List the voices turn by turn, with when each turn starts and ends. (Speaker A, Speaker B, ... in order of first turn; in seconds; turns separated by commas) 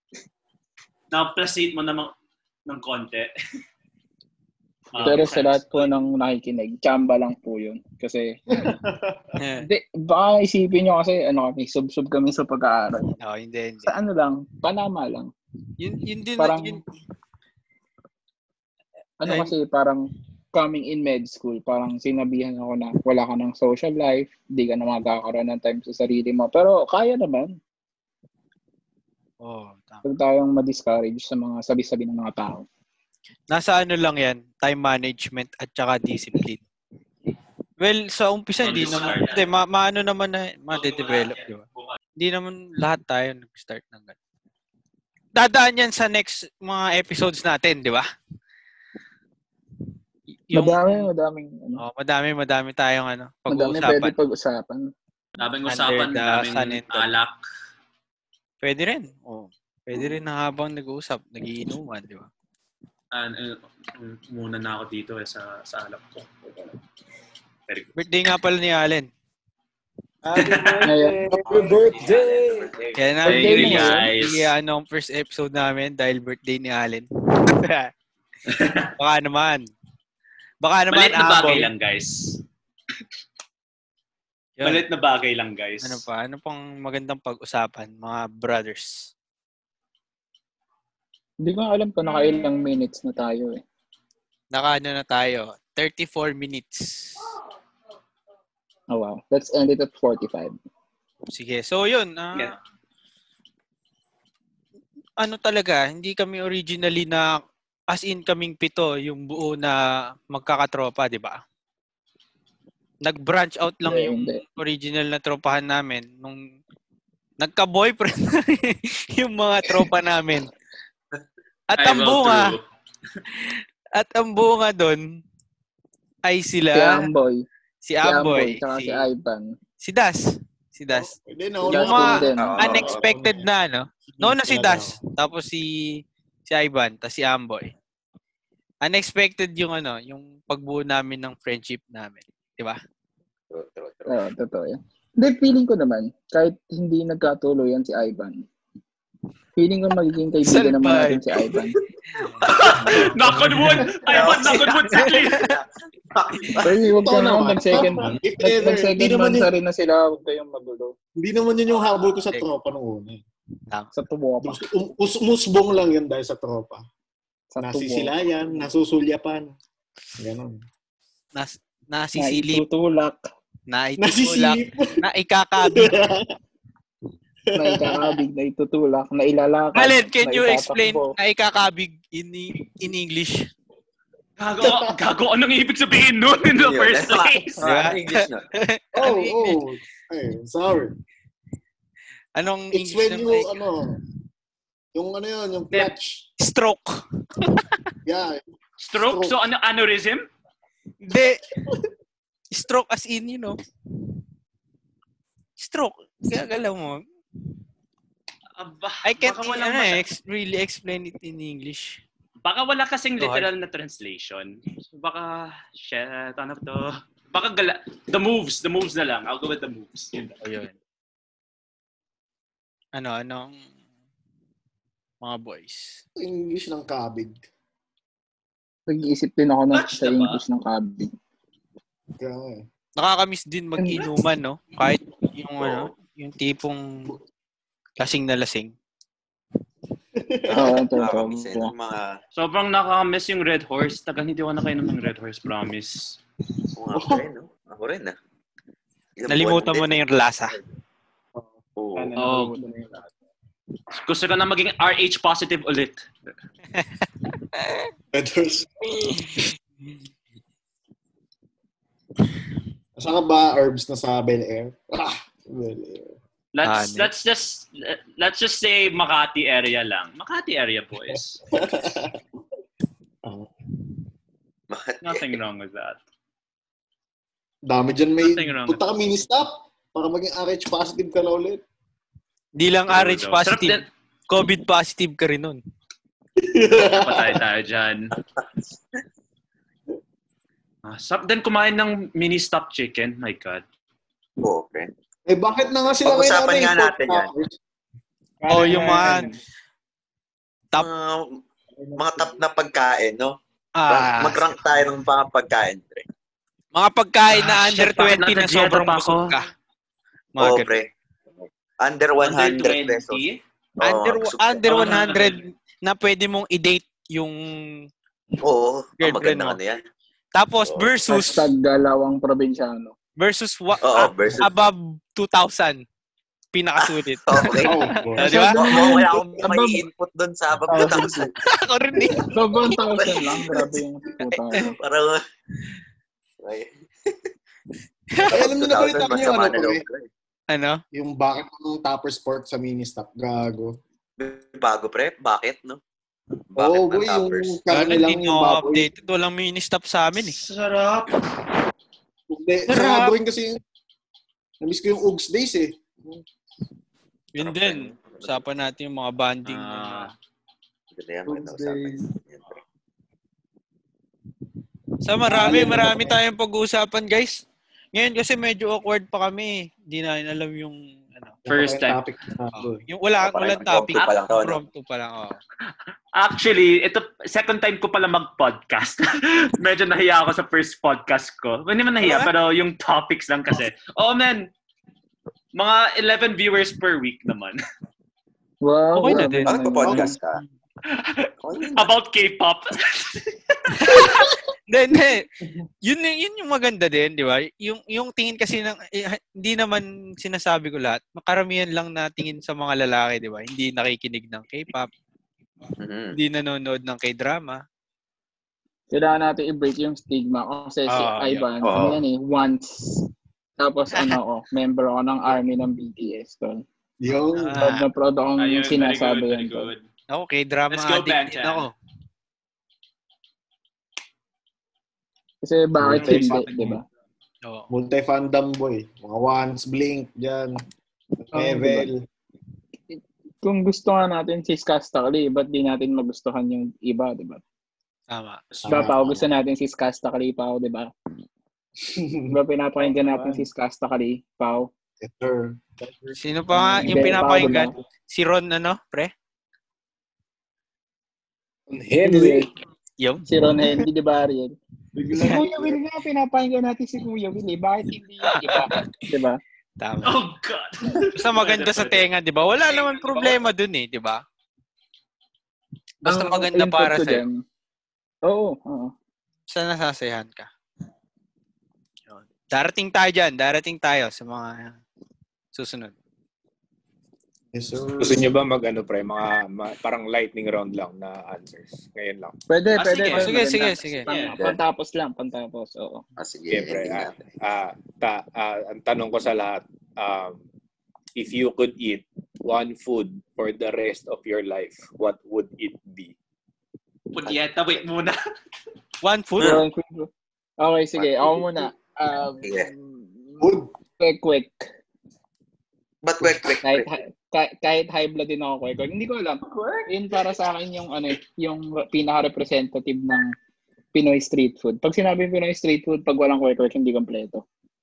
Speaker A: 1.1-2.1, Speaker A: 2.6-3.3, Speaker A: 4.9-5.9, Speaker B: 5.0-8.4, Speaker C: 8.5-9.3, Speaker D: 9.4-9.7, Speaker B: 9.6-13.1, Speaker D: 13.2-13.9, Speaker B: 13.8-15.3, Speaker D: 15.8-16.8, Speaker B: 16.4-16.8, Speaker B: 19.2-27.6, Speaker D: 19.3-19.5, Speaker D: 29.4-30.0, Speaker B: 30.0-32.6, Speaker D: 33.5-36.6, Speaker D: 37.8-41.6, Speaker A: 38.6-39.5, Speaker A: 40.7-41.9, Speaker D: 42.2-44.1, Speaker D: 45.4-48.0, Speaker D: 50.5-51.1, Speaker B: 50.5-51.8, Speaker D: 51.8-54.1, Speaker B: 53.5-54.9, Speaker A: 55.4-57.4, Speaker D: 55.6-57.1, Speaker D: 58.6-62.3, Speaker A: 63.1-66.4, Speaker A: 67.7-68.0, Speaker D: 68.0-69.1, Speaker E: 70.3-72.2, Speaker A: 70.3-70.9, Speaker B: 70.8-71.2, Speaker C: 71.3-71.7, Speaker F: 71.4-73.2, Speaker G: 71.5-72.3, Speaker D: 73.0-77.9, Speaker B: 73.2-74.1, Speaker A: 73.2-74.5, Speaker A: 78.5-78.9, Speaker D: 79.0-79.7, Speaker D: 80.6-81.7, Speaker A: 80.9-82.4, Speaker D: 84.6-84.8, Speaker A: 84.6-86.0, Speaker D: 85.8-89.1, Speaker B: 91.4-93.6, Speaker A: 92.1-92.6, Speaker D: 94.5-97.2, Speaker B: 98.9-100.6, Speaker D: 101.3-102.6, Speaker D: 105.2-111.4, Speaker D: 113.0-116.4, Speaker B: 113.8-114.4, Speaker D: 117.4-120.5, Speaker D: 121.7-122.6, Speaker A: 121.8-122.6, Speaker D: 123.3-125.2, Speaker D: 126.2-127.1, Speaker B: 126.7-127.4, Speaker D: 127.8-129.1, Speaker B: 128.0-129.5, Speaker D: 129.8-131.1, Speaker C: 130.9-133.4, Speaker B: 131.6-132.8, Speaker D: 131.7-137.7, Speaker F: 132.3-133.1, Speaker C: 134.1-135.0, Speaker D: 138.8-142.8, Speaker F: 143.5-144.2, Speaker B: 144.1-148.4, Speaker B: 149.6-151.8, Speaker D: 150.4-151.3, Speaker D: 152.2-152.5, Speaker F: 152.3-153.0, Speaker A: 152.4-155.6, Speaker C: 153.2-154.0, Speaker F: 154.0-156.8, Speaker D: 154.9-155.5, Speaker B: 156.6-160.9, Speaker C: 156.8-159.5, Speaker C: 161.2-163.2, Speaker B: 163.9-164.6, Speaker C: 164.4-166.8, Speaker B: 167.5-168.2, Speaker C: 167.6-169.6, Speaker C: 170.2-170.6, Speaker D: 171.3-172.6, Speaker B: 172.2-173.2, Speaker D: 173.7-175.9, Speaker C: 174.0-175.0, Speaker C: 175.6-176.3, Speaker C: 177.5-178.2, Speaker B: 177.6-181.1, Speaker D: 179.7-183.5, Speaker A: 184.4-187.7, Speaker C: 184.6-184.9, Speaker F: 186.6-188.5, Speaker D: 187.6-189.6, Speaker C: 188.9-190.9, Speaker D: 192.4-193.5, Speaker C: 192.7-194.0, Speaker C: 194.9-196.3, Speaker D: 196.4-197.8, Speaker C: 198.1-198.4, Speaker A: 198.8-200.3, Speaker C: 199.0-199.4, Speaker D: 201.0-201.4, Speaker D: 202.5-203.6, Speaker D: 205.6-207.0, Speaker A: 208.6-210.0, Speaker D: 209.0-212.0, Speaker A: 212.4-220.3, Speaker D: 213.2-213.5, Speaker D: 220.4-220.7, Speaker D: 222.9-223.6, Speaker D: 225.2-226.0, Speaker C: 226.2-227.4, Speaker B: 228.9-231.1, Speaker A: 229.7-230.4, Speaker C: 232.2-232.6, Speaker D: 233.0-236.8, Speaker B: 233.8-234.1, Speaker F: 235.6-235.9, Speaker D: 238.0-238.7, Speaker C: 240.2-240.8, Speaker B: 240.5-241.7, Speaker F: 240.6-242.1, Speaker A: 242.4-246.2, Speaker F: 246.8-248.2, Speaker C: 246.9-247.2, Speaker F: 249.2-250.0, Speaker D: 249.3-250.6, Speaker E: 251.4-253.1, Speaker F: 251.8-252.1, Speaker A: 252.2-252.6, Speaker A: 253.9-256.1, Speaker D: 256.7-257.1, Speaker D: 257.6-257.9, Speaker C: 258.1-259.4, Speaker C: 263.0-266.2, Speaker A: 266.6-271.4, Speaker D: 266.6-267.1, Speaker C: 271.5-272.2, Speaker C: 273.2-273.5, Speaker F: 274.7-275.3, Speaker A: 275.0-276.0, Speaker C: 277.7-281.6, Speaker A: 278.2-278.8, Speaker D: 282.6-285.6, Speaker A: 282.9-283.9, Speaker C: 286.4-287.4, Speaker A: 286.8-288.1, Speaker A: 290.8-293.6, Speaker F: 294.4-294.9, Speaker C: 295.3-297.6, Speaker F: 296.0-297.3, Speaker E: 298.4-299.4, Speaker D: 298.5-299.3, Speaker F: 300.7-301.4, Speaker E: 301.8-302.4, Speaker F: 301.9-306.1, Speaker D: 303.8-304.6, Speaker D: 306.7-309.5, Speaker A: 307.3-309.4, Speaker D: 310.3-310.7, Speaker F: 310.4-310.9, Speaker F: 311.4-313.2, Speaker A: 312.2-313.4, Speaker F: 313.8-314.9, Speaker D: 313.8-317.4, Speaker A: 314.7-315.4, Speaker F: 318.4-319.8, Speaker D: 319.0-319.6, Speaker D: 320.3-321.5, Speaker F: 320.6-320.9, Speaker B: 321.1-322.9, Speaker D: 323.2-325.8, Speaker F: 323.8-324.5, Speaker D: 326.5-328.9, Speaker F: 326.8-331.3, Speaker C: 327.6-328.9, Speaker B: 328.3-329.8, Speaker C: 330.7-331.3, Speaker D: 331.4-332.3, Speaker C: 332.0-332.3, Speaker B: 332.3-334.7, Speaker F: 332.9-333.7, Speaker F: 334.6-335.2, Speaker F: 336.4-336.7, Speaker D: 338.1-338.4, Speaker F: 338.2-340.1, Speaker C: 338.3-339.8, Speaker D: 340.5-340.8, Speaker C: 340.9-343.8, Speaker F: 344.2-345.8, Speaker F: 346.5-347.6, Speaker C: 346.6-348.9, Speaker D: 347.7-350.4, Speaker A: 350.1-351.2, Speaker C: 352.3-353.6, Speaker D: 352.7-353.2, Speaker C: 354.6-356.2, Speaker D: 357.3-360.1, Speaker F: 357.4-358.4, Speaker A: 359.4-360.1, Speaker F: 360.9-362.6, Speaker C: 361.3-361.9, Speaker D: 365.0-371.4, Speaker C: 365.3-366.2, Speaker C: 371.4-372.8, Speaker A: 371.5-372.0, Speaker D: 372.5-375.4, Speaker F: 373.2-374.6, Speaker A: 376.1-384.5, Speaker D: 382.0-382.3, Speaker A: 385.6-387.6, Speaker B: 388.6-390.2, Speaker D: 388.9-389.9, Speaker F: 389.4-390.4, Speaker A: 390.9-394.3, Speaker F: 391.4-391.9, Speaker D: 393.7-395.3, Speaker D: 395.8-404.9, Speaker F: 405.8-406.2, Speaker D: 406.1-407.6, Speaker B: 408.9-413.1, Speaker D: 410.9-411.5, Speaker F: 411.6-412.0, Speaker B: 413.6-416.6, Speaker C: 417.0-417.8, Speaker D: 417.3-417.8, Speaker B: 417.6-419.7, Speaker A: 418.4-419.9, Speaker D: 420.1-421.7, Speaker A: 420.7-421.7, Speaker B: 425.4-426.8, Speaker C: 425.8-426.8, Speaker D: 427.4-427.7, Speaker C: 427.7-430.6, Speaker C: 431.3-432.0, Speaker B: 431.3-431.9, Speaker B: 432.9-437.4, Speaker D: 438.1-438.4, Speaker C: 438.6-439.0, Speaker B: 438.6-440.9, Speaker C: 441.8-442.4, Speaker B: 442.3-444.7, Speaker E: 442.9-443.4, Speaker C: 445.0-446.2, Speaker D: 446.2-449.1, Speaker B: 446.5-447.7, Speaker G: 451.7-452.4, Speaker B: 452.0-452.5, Speaker D: 453.0-453.3, Speaker B: 453.3-454.6, Speaker E: 454.9-455.8, Speaker B: 455.2-459.4, Speaker D: 458.2-459.0, Speaker D: 459.8-460.2, Speaker A: 460.0-462.1, Speaker D: 461.1-464.2, Speaker A: 462.7-463.4, Speaker D: 466.0-467.2, Speaker B: 466.1-467.4, Speaker B: 468.2-468.9, Speaker D: 469.5-470.5, Speaker D: 472.1-474.8, Speaker D: 475.5-475.9, Speaker C: 477.5-478.3, Speaker G: 478.0-482.3, Speaker B: 482.5-486.0, Speaker A: 482.8-483.3, Speaker D: 483.1-484.1, Speaker A: 484.1-484.3, Speaker F: 486.2-487.2, Speaker G: 486.5-490.4, Speaker G: 491.2-496.1, Speaker A: 497.1-498.2, Speaker D: 499.0-499.6, Speaker B: 499.4-503.5, Speaker F: 500.9-501.7, Speaker F: 502.4-502.7, Speaker C: 503.4-503.7, Speaker B: 504.0-504.7, Speaker F: 506.0-506.9, Speaker B: 506.6-513.3, Speaker B: 513.9-517.4